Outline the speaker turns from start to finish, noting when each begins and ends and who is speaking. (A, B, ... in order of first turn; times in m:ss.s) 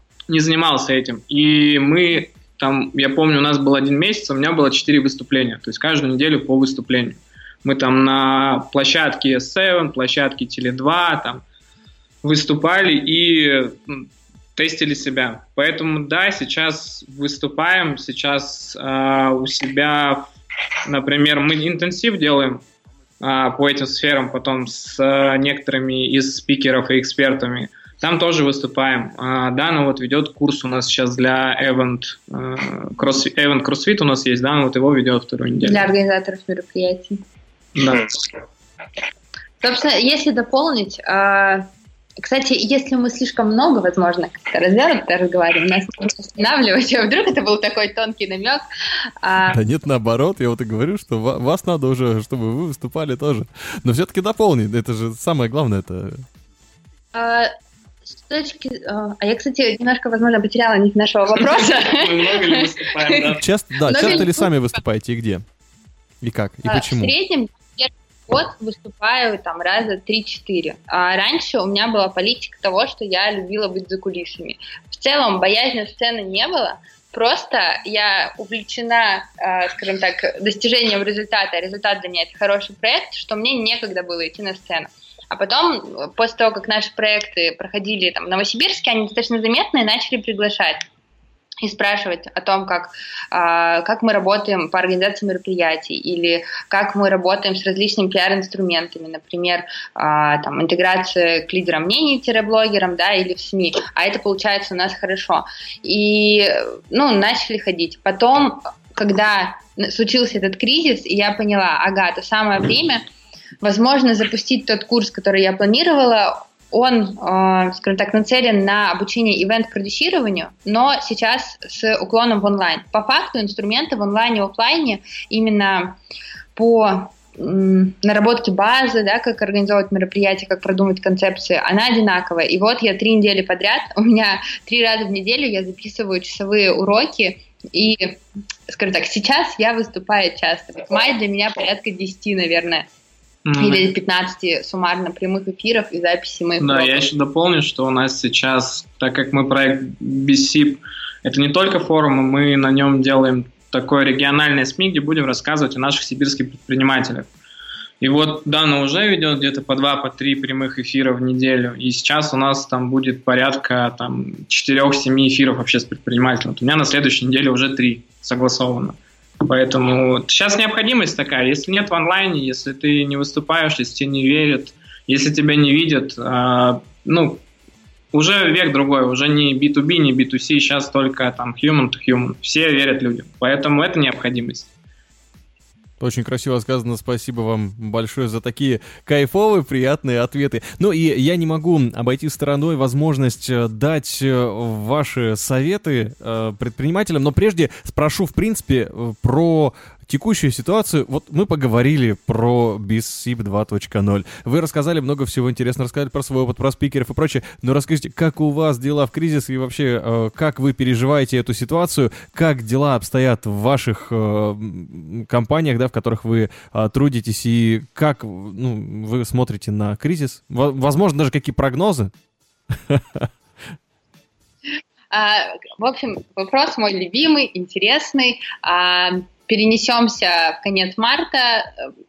0:00.3-0:11.4 A
0:12.2-0:20.2 A
0:20.8-0:22.6 A
0:23.2-0:35.9 A
0:35.6-0:37.2 B
0:37.8-0:38.3 A
0:39.6-0:41.7 B
0:42.2-0:48.6 B
0:49.2-0:49.6 B
0:49.4-0:56.2 C
0:57.1-0:57.5 B
0:58.1-1:03.2 B
1:01.4-1:04.2 A
1:03.4-1:05.4 C
1:03.8-1:04.5 B
1:06.2-1:07.1 C
1:06.6-1:30.8 B
1:31.6-1:53.0 B
1:53.6-2:06.0 B
2:06.6-2:22.9 B
2:23.4-2:23.9 A
2:23.6-2:27.0 B
2:26.6-2:37.3 A
2:38.0-2:57.4 A
2:58.1-3:04.7 A
3:06.0-3:42.1 C
3:42.7-3:43.3 C
3:45.1-3:51.9 B